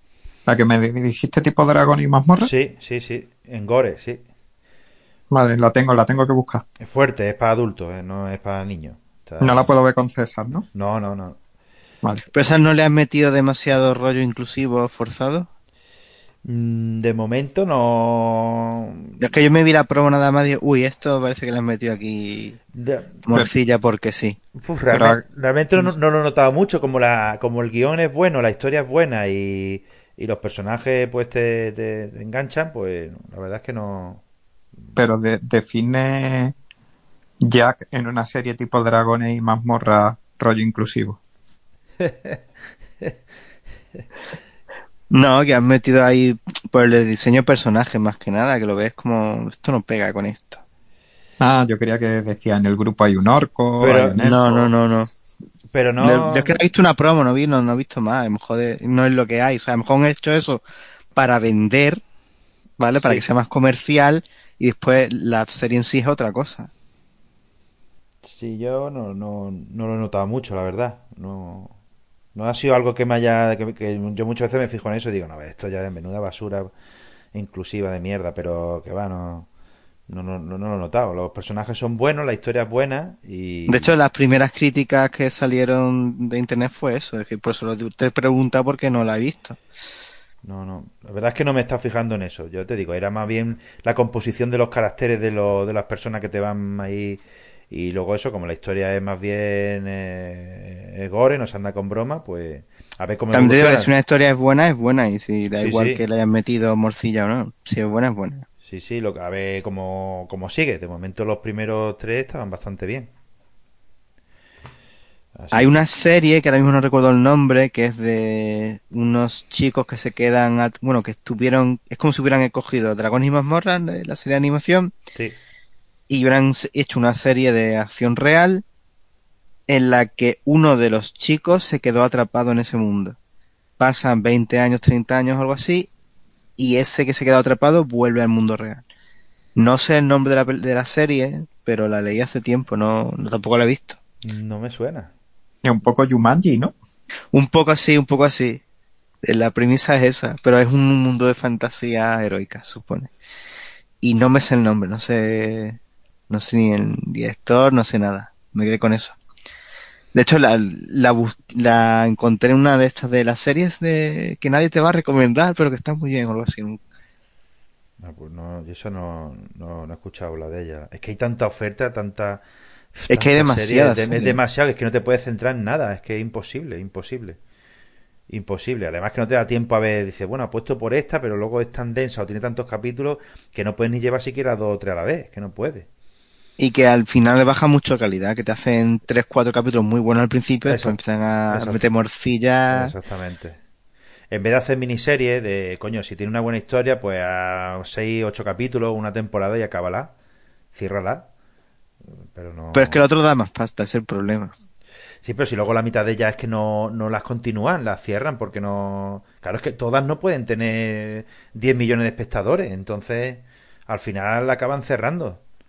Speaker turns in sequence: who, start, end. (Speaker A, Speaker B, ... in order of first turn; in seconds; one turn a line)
Speaker A: 0.5-2.5
Speaker B: 2.4-4.2
Speaker A: 5.3-6.6
Speaker B: 6.8-9.7
Speaker A: 9.4-10.7
Speaker B: 10.7-11.4
Speaker C: 12.3-15.5
Speaker B: 16.4-19.2
Speaker C: 19.2-22.6
Speaker B: 22.7-23.2
Speaker C: 23.3-24.4
Speaker B: 24.6-34.2
Speaker A: 24.9-25.2
Speaker A: 35.0-36.5
Speaker A: 37.4-41.2
Speaker B: 42.0-42.4
Speaker C: 45.1-50.6
Speaker A: 51.4-54.4
Speaker B: 53.8-54.7
Speaker C: 54.2-55.1
Speaker B: 55.7-56.6
Speaker C: 56.0-60.6
Speaker C: 61.1-62.0
Speaker C: 62.8-66.7
Speaker B: 68.2-71.7
Speaker B: 72.3-76.7
Speaker B: 77.3-79.5
Speaker B: 80.1-83.9
Speaker C: 83.7-89.6
Speaker B: 90.4-103.9
Speaker C: 103.3-108.4
Speaker B: 105.6-106.0
Speaker B: 108.6-113.1
Speaker B: 115.3-115.7
Speaker C: 115.5-124.9
Speaker C: 126.1-128.6
Speaker C: 129.7-133.2
Speaker C: 133.8-135.9
Speaker C: 136.6-138.8
Speaker C: 139.6-144.0
Speaker B: 144.2-145.1
Speaker A: 145.6-146.7
Speaker C: 147.3-148.6
Speaker C: 149.2-153.1
Speaker C: 154.0-155.8
Speaker C: 156.3-159.2
Speaker C: 160.1-166.8
Speaker B: 168.0-177.4
Speaker C: 173.1-174.4
Speaker B: 178.3-185.9
Speaker C: 186.6-192.9
Speaker B: 190.7-191.8
Speaker B: 192.7-193.6
Speaker B: 194.3-200.1
Speaker B: 200.7-201.3
Speaker B: 202.2-203.0
Speaker C: 202.7-204.5
Speaker B: 205.2-215.4